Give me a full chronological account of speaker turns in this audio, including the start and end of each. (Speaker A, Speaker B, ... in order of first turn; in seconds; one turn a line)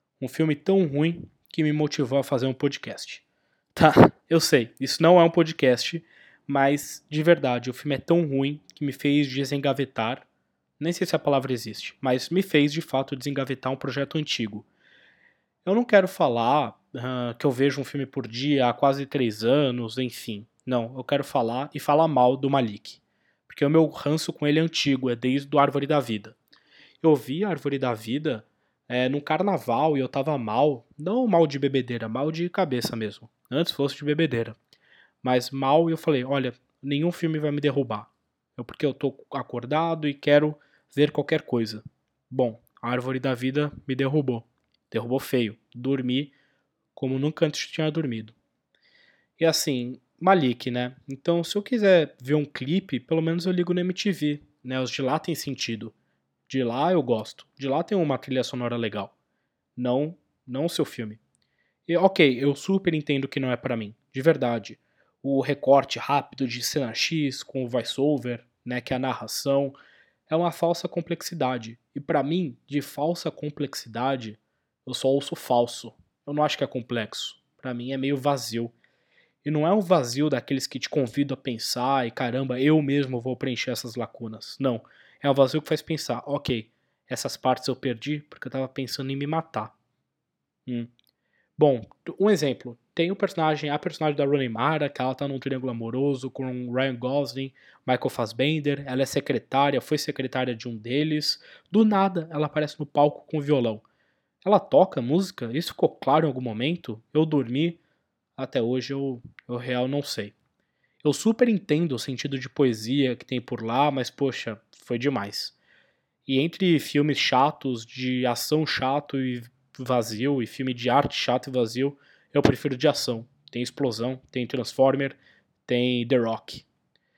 Speaker A: 0.2-10.3
Speaker A: 10.8-14.7
Speaker A: 15.6-26.4
Speaker A: 27.0-34.6
Speaker A: 35.2-46.3
Speaker A: 46.9-48.3
Speaker A: 49.4-55.9
Speaker A: 56.5-59.1
Speaker A: 59.8-61.2
Speaker A: 61.9-69.8
Speaker A: 70.3-78.7
Speaker A: 79.4-89.7
Speaker A: 91.6-103.8
Speaker A: 104.4-107.8
Speaker A: 108.4-110.3
Speaker A: 111.0-115.6
Speaker A: 116.2-126.7